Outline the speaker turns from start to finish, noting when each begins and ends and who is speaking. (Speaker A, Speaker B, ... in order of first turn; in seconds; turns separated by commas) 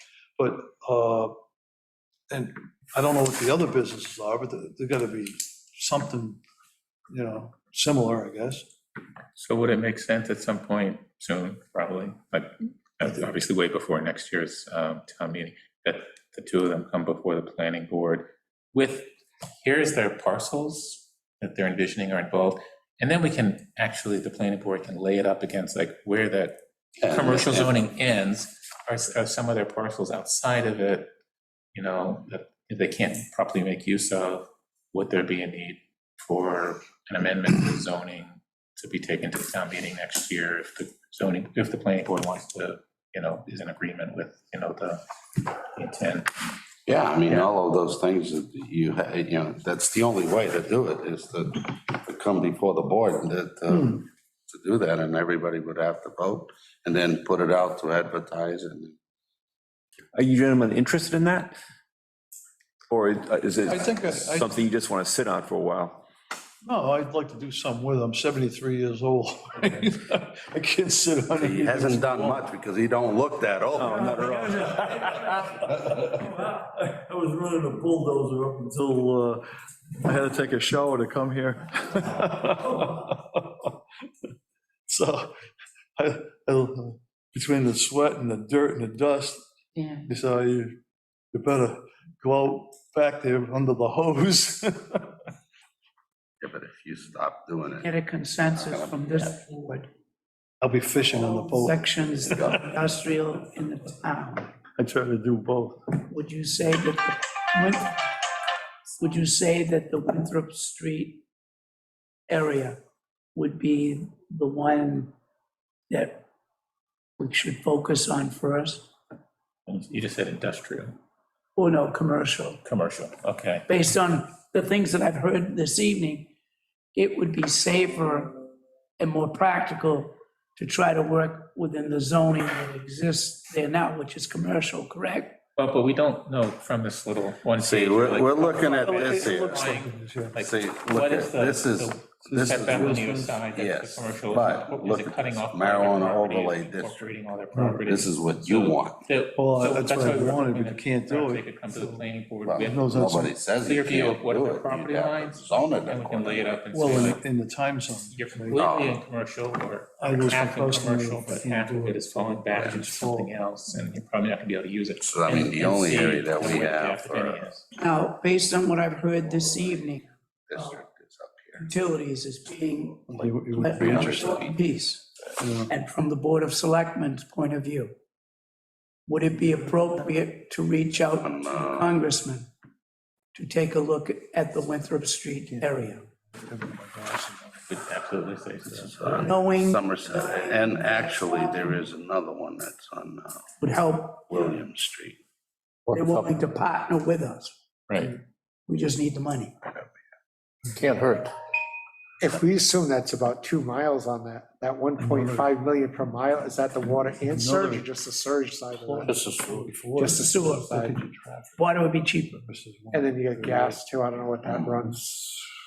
Speaker A: 0.4-1.4, Speaker A: 2.3-6.4, Speaker A: 7.1-8.7, Speaker B: 9.3-31.1, Speaker C: 27.0-27.8, Speaker B: 31.7-46.5, Speaker C: 46.9-58.9, Speaker A: 53.7-54.0, Speaker D: 60.1-61.5, Speaker D: 62.9-66.0, Speaker A: 63.6-64.5, Speaker A: 66.6-72.5, Speaker C: 71.3-74.2, Speaker D: 73.7-74.9, Speaker A: 74.0-79.5, Speaker A: 80.0-83.8, Speaker A: 84.9-85.4, Speaker A: 86.0-90.8, Speaker A: 91.3-95.1, Speaker C: 96.4-99.3, Speaker E: 97.8-99.9, Speaker A: 100.6-102.6, Speaker E: 101.1-104.5, Speaker C: 102.3-102.7, Speaker A: 104.8-106.0, Speaker E: 106.1-108.0, Speaker E: 109.0-111.2, Speaker E: 112.3-112.8, Speaker E: 113.3-115.1, Speaker E: 115.9-116.2, Speaker E: 117.2-118.9, Speaker B: 119.7-121.0, Speaker E: 121.5-122.6, Speaker B: 122.6-123.7, Speaker E: 123.7-126.3, Speaker E: 126.9-128.4, Speaker E: 129.0-135.4, Speaker B: 135.6-152.9, Speaker C: 137.6-139.8, Speaker E: 138.8-139.3, Speaker A: 139.2-140.4, Speaker C: 140.3-142.9, Speaker A: 142.2-143.4, Speaker C: 143.5-149.0, Speaker A: 149.3-152.1, Speaker C: 152.4-156.6, Speaker A: 152.6-153.3, Speaker B: 153.6-157.2, Speaker A: 156.7-158.6, Speaker B: 158.1-167.6, Speaker C: 158.5-159.0, Speaker A: 160.0-163.3, Speaker C: 165.0-167.4, Speaker E: 167.7-170.0, Speaker C: 169.2-171.7, Speaker E: 171.6-175.1, Speaker A: 173.1-174.5, Speaker C: 173.3-174.6, Speaker A: 175.3-175.7, Speaker E: 175.7-177.9, Speaker E: 179.1-182.5, Speaker C: 181.1-182.0, Speaker E: 183.3-186.0, Speaker A: 185.5-187.7, Speaker B: 187.7-189.2, Speaker C: 188.7-193.5, Speaker E: 189.2-191.8, Speaker E: 193.6-194.4, Speaker C: 194.2-195.2, Speaker B: 195.9-196.3, Speaker E: 195.9-197.5, Speaker B: 197.9-198.2, Speaker E: 198.7-199.6, Speaker B: 200.7-201.3, Speaker F: 202.2-209.2, Speaker A: 205.0-205.5, Speaker A: 207.2-207.9, Speaker A: 208.8-211.7, Speaker F: 209.9-210.9, Speaker E: 210.1-210.8, Speaker E: 211.6-212.4, Speaker A: 212.4-213.8, Speaker F: 212.9-215.1, Speaker C: 214.4-214.8